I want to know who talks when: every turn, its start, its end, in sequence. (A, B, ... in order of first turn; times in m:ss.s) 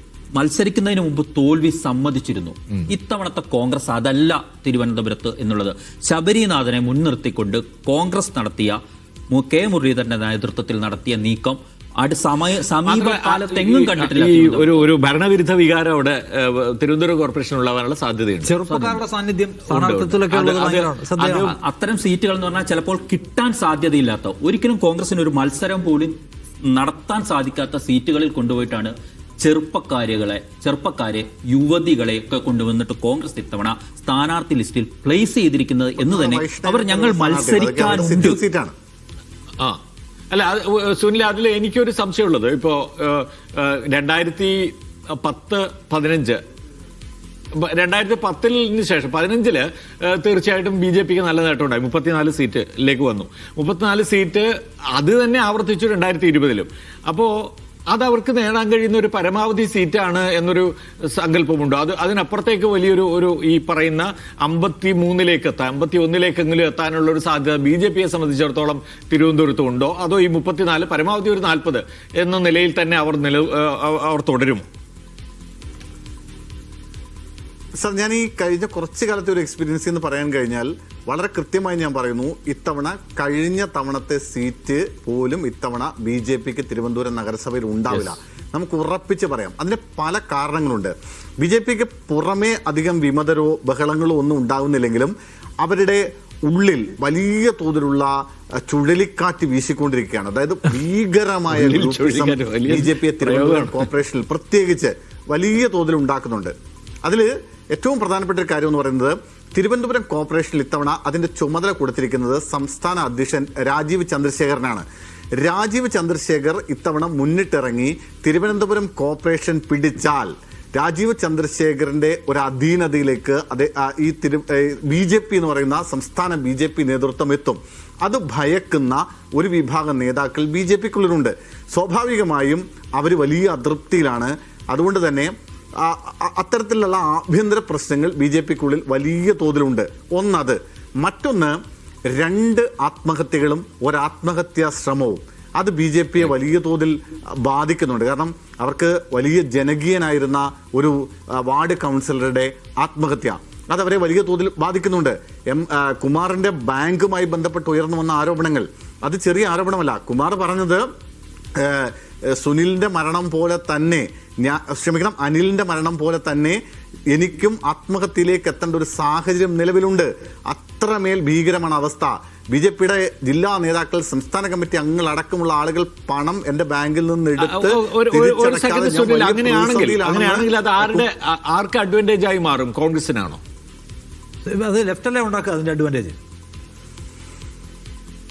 0:00.3-0:08.8 A
0:09.3-0:14.8 A
0:12.9-0:18.5 B
0:18.4-0:21.5 C
0:18.7-0:19.0 A
0:19.7-0:21.5 B
0:21.2-0:38.4 A
0:36.0-0:38.7 D
0:40.3-0:46.4 B
0:47.5-1:14.6 B
1:17.8-2:21.6 D
1:27.9-1:28.1 B
1:41.5-1:43.8 B
2:22.1-2:40.8 D
2:41.6-2:46.6 D
2:47.1-3:01.0 D
2:57.4-3:03.4 B
3:04.4-3:06.2 C